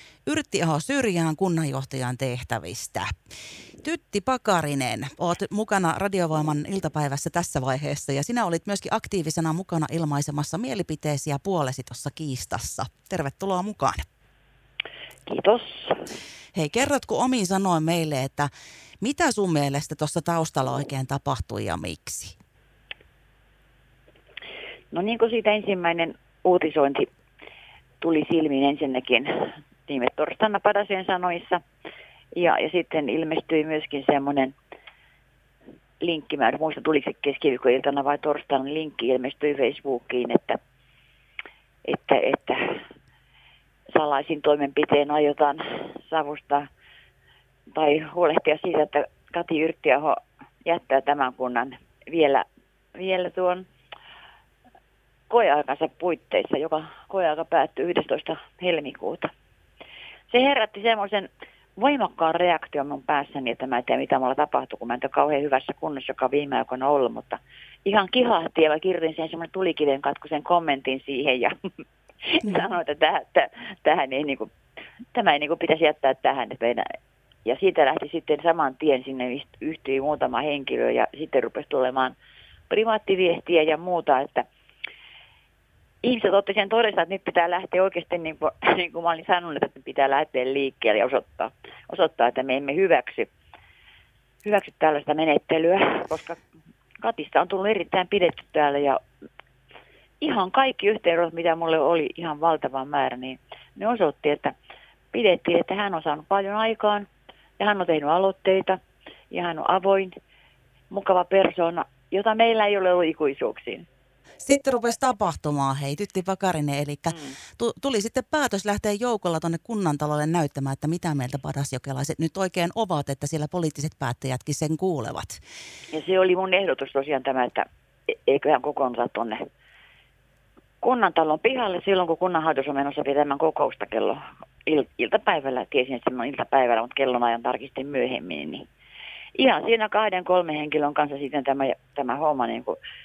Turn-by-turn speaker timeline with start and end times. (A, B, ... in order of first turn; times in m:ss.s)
0:00.2-0:03.1 A
0:03.8-0:14.0 A
0:15.2-0:16.0 B
0:16.5-0:18.5 A
0:19.0-0:22.4 A
0:24.9-0:27.1 B
0:28.0-0:29.3 B
0:29.9-0:31.6 B
0:32.3-0:34.5 B
0:36.0-0:40.6 B
0:41.8-0:42.8 B
0:43.9-0:46.7 B
0:47.7-0:53.6 B
0:55.3-0:59.3 B
1:00.3-1:11.5 B
1:12.2-1:14.5 B
1:15.1-1:16.8 B
1:17.4-1:22.2 B
1:22.7-1:24.4 B
1:26.0-1:33.3 B
1:34.4-1:36.4 B
1:37.0-1:39.0 B
1:40.2-1:44.5 B
1:45.1-1:47.1 B
1:47.6-1:48.8 B
1:49.3-1:50.1 B
1:50.9-1:53.8 B
1:54.4-2:05.4 A
2:05.9-2:09.4 B
2:10.8-2:18.7 B
2:19.3-2:22.8 B